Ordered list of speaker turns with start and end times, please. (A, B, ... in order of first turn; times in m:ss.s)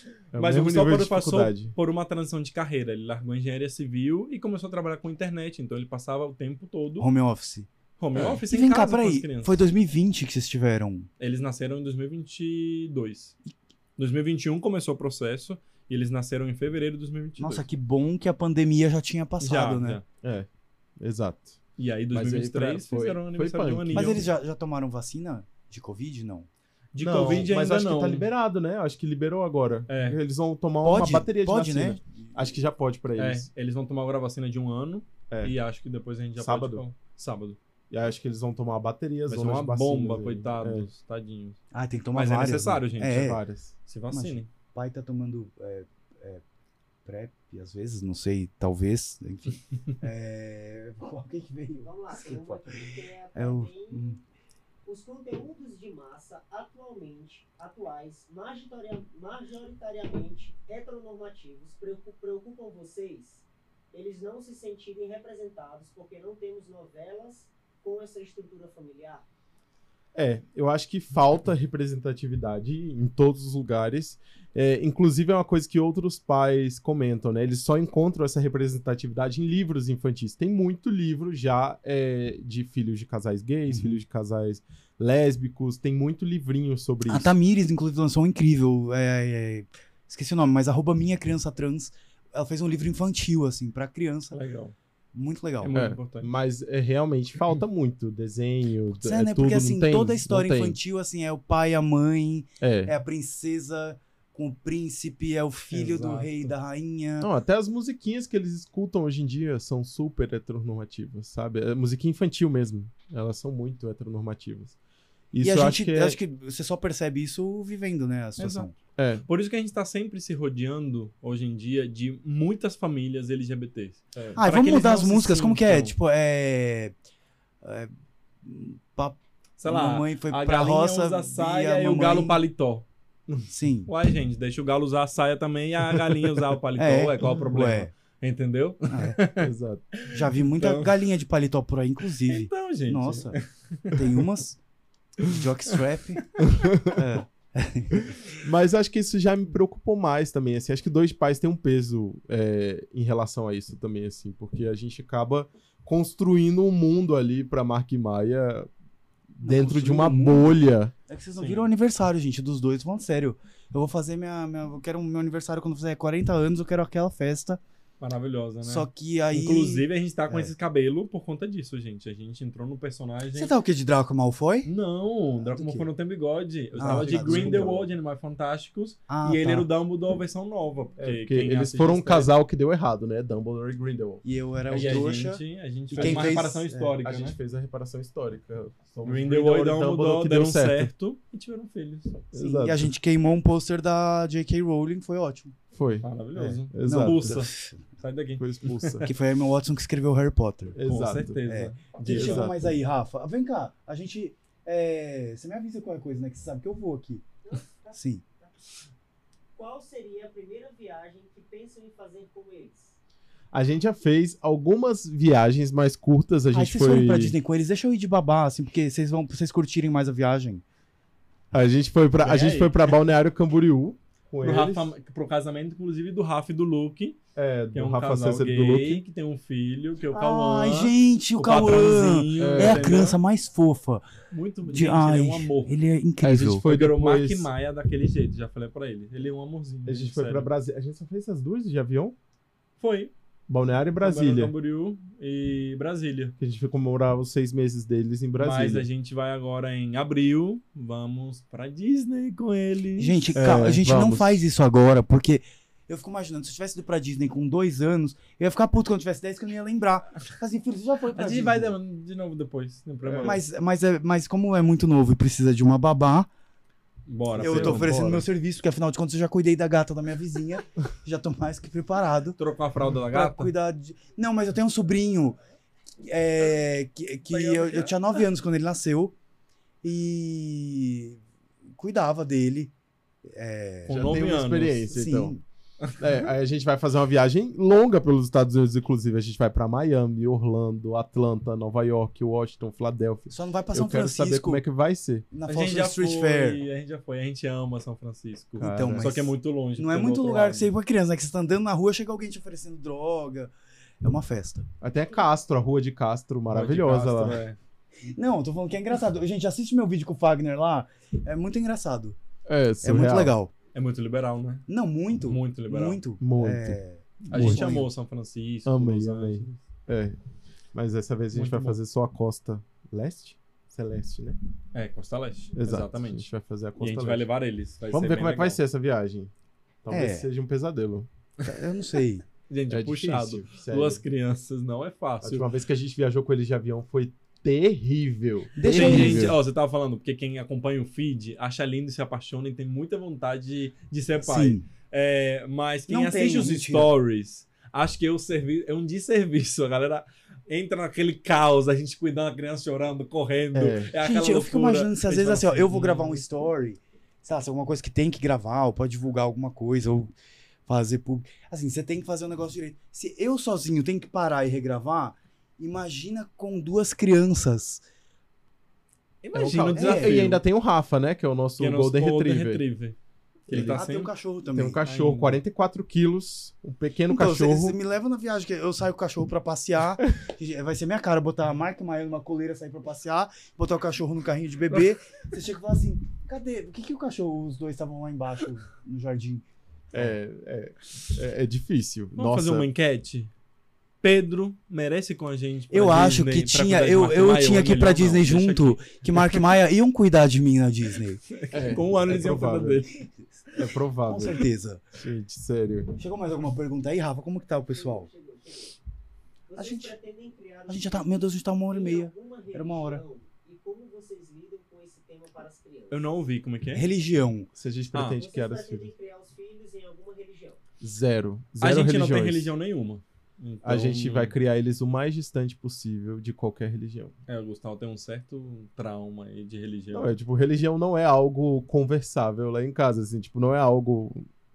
0:00.3-0:01.7 A
0:00.3-0:07.1 B
0:07.0-0:07.7 C
0:08.0-0:09.6 B
0:08.1-0:08.4 A
0:08.5-0:11.1 C
0:11.2-0:13.4 B
0:14.0-0:17.6 B
0:17.4-0:20.0 C
0:19.4-0:20.0 B
0:20.2-0:20.5 A
0:21.0-0:21.6 A
0:21.8-0:24.3 B
0:22.1-0:24.2 A
0:23.9-0:26.5 C
0:26.9-0:28.3 B
0:27.0-0:33.5 A
0:29.9-0:30.2 B
0:30.8-0:32.0 C
0:33.2-0:37.6 B
0:35.3-0:35.6 A
0:36.4-0:36.8 A
0:37.9-0:40.9 A
0:39.3-0:41.6 B
0:41.7-0:43.4 C
0:42.1-0:44.5 B
0:43.1-0:43.7 A
0:44.1-0:46.4 C
0:47.0-0:54.2 C
0:51.8-0:54.2 D
0:54.8-1:09.2 D
1:10.1-1:27.3 A
1:23.7-1:24.0 C
1:27.1-1:34.4 C
1:34.3-1:34.7 B
1:35.1-1:35.7 C
1:35.6-1:36.3 B
1:35.7-1:40.8 A
1:38.9-1:47.3 C
1:42.6-1:42.9 A
1:45.7-1:46.5 B
1:47.2-1:54.8 A
1:55.3-1:56.2 A
1:55.4-1:58.7 C
1:58.4-1:58.7 B
1:59.0-1:59.2 A
1:59.3-2:05.9 B
2:04.4-2:06.9 C
2:07.6-2:07.9 C
2:08.4-2:12.4 C
2:09.6-2:12.8 B
2:13.5-2:13.9 C
2:13.9-2:20.9 B
2:16.8-2:17.9 C
2:18.9-2:19.2 C
2:19.4-2:19.9 A
2:20.1-2:23.4 C
2:22.3-2:24.2 B
2:23.9-2:24.6 C
2:25.2-2:26.3 C
2:26.5-2:27.0 A
2:26.8-2:28.1 C
2:28.0-2:38.7 A
2:39.4-2:40.9 A
2:39.4-2:40.6 C
2:41.1-2:47.6 C
2:41.4-2:41.7 B
2:48.0-2:53.5 B
2:48.6-2:50.5 C
2:53.4-2:54.7 C
2:54.6-3:02.3 B
2:55.5-2:55.9 C
2:56.8-2:57.7 C
2:57.0-2:57.9 A
2:59.1-2:59.7 C
3:01.0-3:05.1 A
3:04.2-3:06.9 C
3:04.7-3:07.4 B
3:05.9-3:06.5 A
3:07.0-3:10.9 A
3:09.0-3:12.3 B
3:12.3-3:12.9 A
3:12.4-3:15.6 C
3:15.7-3:16.1 A
3:16.0-3:19.1 B
3:16.4-3:17.8 C
3:16.7-3:17.5 A
3:18.4-3:19.1 A
3:19.0-3:20.8 C
3:20.7-3:21.4 A
3:20.8-3:22.5 B
3:21.5-3:27.2 C
3:22.0-3:22.6 A
3:27.4-3:28.5 D
3:27.9-3:28.2 C
3:29.6-3:33.0 D
3:33.5-3:37.4 A
3:36.5-3:40.6 C
3:41.5-3:44.9 A
3:42.2-3:42.9 B
3:44.4-3:47.2 B
3:47.4-3:49.0 A
3:47.7-3:53.2 B
3:50.1-3:54.1 C
3:52.4-3:53.0 A
3:54.3-3:55.7 B
3:54.7-3:56.6 C
3:56.2-3:57.5 A
3:56.6-4:00.5 B
3:59.8-4:02.1 A
4:02.8-4:03.1 B
4:03.5-4:04.5 A
4:04.0-4:06.4 B
4:06.4-4:08.9 A
4:08.4-4:13.3 B
4:13.0-4:21.8 C
4:13.4-4:14.4 A
4:21.1-4:23.4 B
4:23.0-4:23.4 A
4:23.2-4:26.3 C
4:27.1-4:27.9 B
4:27.4-4:28.3 A
4:27.4-4:32.4 C
4:32.4-4:33.5 B
4:33.1-4:35.4 C
4:36.0-4:39.1 C
4:37.3-4:38.0 B
4:39.8-4:41.2 C
4:41.8-4:42.7 C
4:43.3-4:44.1 C
4:43.9-4:44.9 B
4:43.9-4:45.3 A
4:44.9-4:45.4 C
4:46.0-4:55.3 A
4:53.3-4:54.6 C
4:55.3-4:56.6 C
4:55.5-5:00.7 B
4:58.6-4:59.1 A
4:58.6-5:03.5 C
5:04.0-5:04.6 C
5:04.8-5:07.4 A
5:06.5-5:07.6 B
5:08.1-5:12.2 C
5:12.4-5:13.3 A
5:12.8-5:13.5 C
5:13.7-5:14.7 B
5:14.7-5:17.9 C
5:15.3-5:16.0 B
5:16.2-5:17.8 A
5:17.3-5:19.6 B
5:18.6-5:20.2 A
5:20.7-5:24.4 A
5:21.3-5:21.8 B
5:24.7-5:26.3 B
5:25.6-5:27.3 A
5:26.8-5:28.6 B
5:27.9-5:29.3 A
5:29.8-5:31.1 A
5:29.9-5:30.3 C
5:31.4-5:32.2 C
5:32.5-5:35.5 B
5:32.7-5:34.0 A
5:35.2-5:39.4 A
5:38.6-5:39.4 C
5:38.6-5:56.2 B
5:44.2-5:44.6 C
5:45.9-5:46.9 C
5:53.5-5:53.9 A
5:54.0-6:00.1 C
6:00.7-6:07.8 C
6:09.2-6:10.4 B
6:09.3-6:12.6 A
6:09.7-6:10.3 C
6:11.6-6:13.0 B
6:13.5-6:14.1 B
6:13.5-6:13.8 A
6:13.5-6:14.8 C
6:14.5-6:17.8 A
6:14.8-6:15.4 B
6:17.1-6:29.4 C
6:29.9-6:32.7 A
6:32.2-6:33.3 B
6:34.0-6:39.4 B
6:35.7-6:41.2 C
6:41.3-6:43.0 B
6:41.5-6:42.8 A
6:43.5-6:45.9 A
6:44.1-6:44.8 C
6:46.0-6:48.1 C
6:47.7-6:48.8 D
6:49.5-6:56.1 D
6:49.6-6:49.9 C
6:50.7-6:53.0 C
6:55.9-6:56.8 B
6:56.7-6:57.5 C
6:57.6-6:58.9 A
6:57.9-6:58.2 B
6:58.1-7:00.6 D
7:00.8-7:02.5 A
7:01.6-7:04.4 B
7:03.6-7:07.1 A
7:07.3-7:10.1 B
7:09.9-7:14.3 A